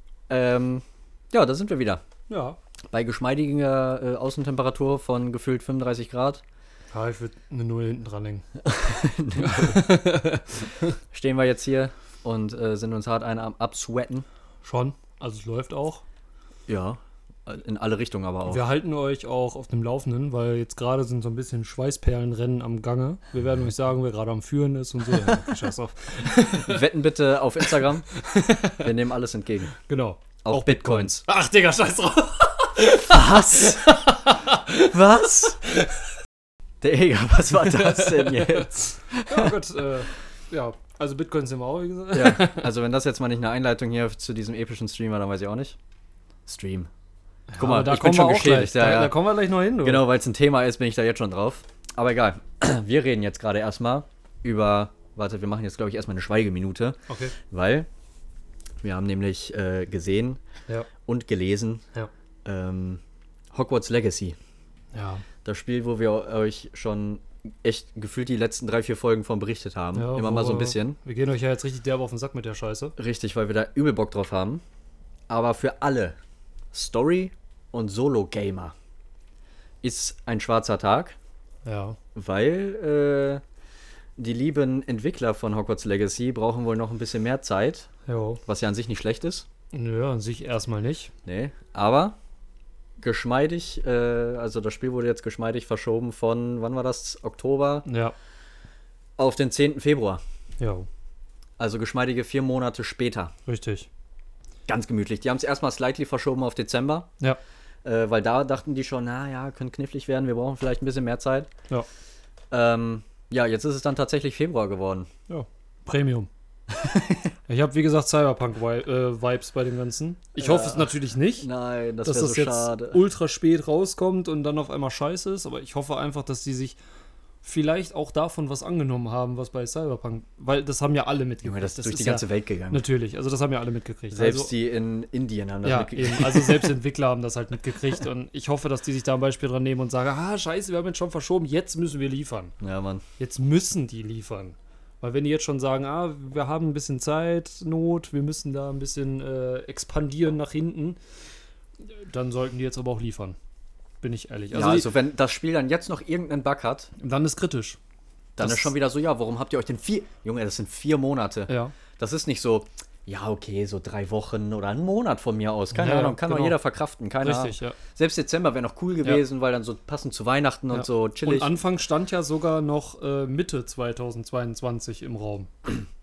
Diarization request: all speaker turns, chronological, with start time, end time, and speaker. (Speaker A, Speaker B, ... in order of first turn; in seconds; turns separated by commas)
Speaker A: 0.3-2.0, Speaker B: 2.3-2.6, Speaker A: 2.9-6.4, Speaker B: 6.9-8.5, Speaker A: 8.6-9.9, Speaker B: 9.4-10.9, Speaker A: 11.1-14.2, Speaker B: 14.6-16.0, Speaker A: 16.7-18.6, Speaker B: 18.5-26.9, Speaker A: 26.6-28.1, Speaker B: 28.1-28.9, Speaker A: 28.8-29.8, Speaker B: 29.8-34.9, Speaker A: 30.4-31.2, Speaker A: 33.1-33.9, Speaker A: 34.8-35.6, Speaker B: 35.6-35.9, Speaker A: 36.8-39.5, Speaker B: 37.7-42.7, Speaker A: 42.1-45.8, Speaker A: 46.5-46.9, Speaker B: 47.5-50.0, Speaker A: 47.6-49.1, Speaker A: 49.8-57.0, Speaker B: 57.1-57.3, Speaker A: 57.5-57.9, Speaker A: 58.8-60.4, Speaker A: 61.0-61.9, Speaker A: 62.4-63.0, Speaker A: 63.5-64.3, Speaker B: 64.9-65.2, Speaker A: 65.4-71.0, Speaker B: 69.9-72.9, Speaker A: 73.0-74.6, Speaker A: 75.3-76.2, Speaker A: 76.7-78.7, Speaker A: 79.8-81.2, Speaker B: 81.6-82.0, Speaker A: 82.1-83.4, Speaker A: 84.2-87.9, Speaker B: 88.0-88.4, Speaker A: 88.5-89.4, Speaker B: 89.7-91.1, Speaker A: 91.2-92.2, Speaker A: 93.0-97.8, Speaker B: 97.8-98.1, Speaker A: 99.2-100.2, Speaker B: 100.6-100.9, Speaker A: 101.6-103.3, Speaker B: 103.5-103.9, Speaker A: 104.7-107.1, Speaker A: 107.8-111.5, Speaker A: 112.5-115.1, Speaker B: 115.3-116.3, Speaker A: 116.7-117.3, Speaker B: 117.5-121.5, Speaker A: 120.3-123.0, Speaker B: 122.0-126.8, Speaker B: 127.4-134.5, Speaker A: 131.4-132.8, Speaker A: 134.1-136.7, Speaker B: 135.6-142.5, Speaker A: 142.6-143.0, Speaker B: 143.2-151.0, Speaker B: 151.8-153.3, Speaker B: 154.0-154.9, Speaker A: 154.5-156.9, Speaker B: 157.0-157.8, Speaker A: 158.4-171.5, Speaker B: 158.4-158.7, Speaker B: 161.5-161.7, Speaker B: 165.7-166.6, Speaker B: 167.2-167.8, Speaker B: 170.7-175.5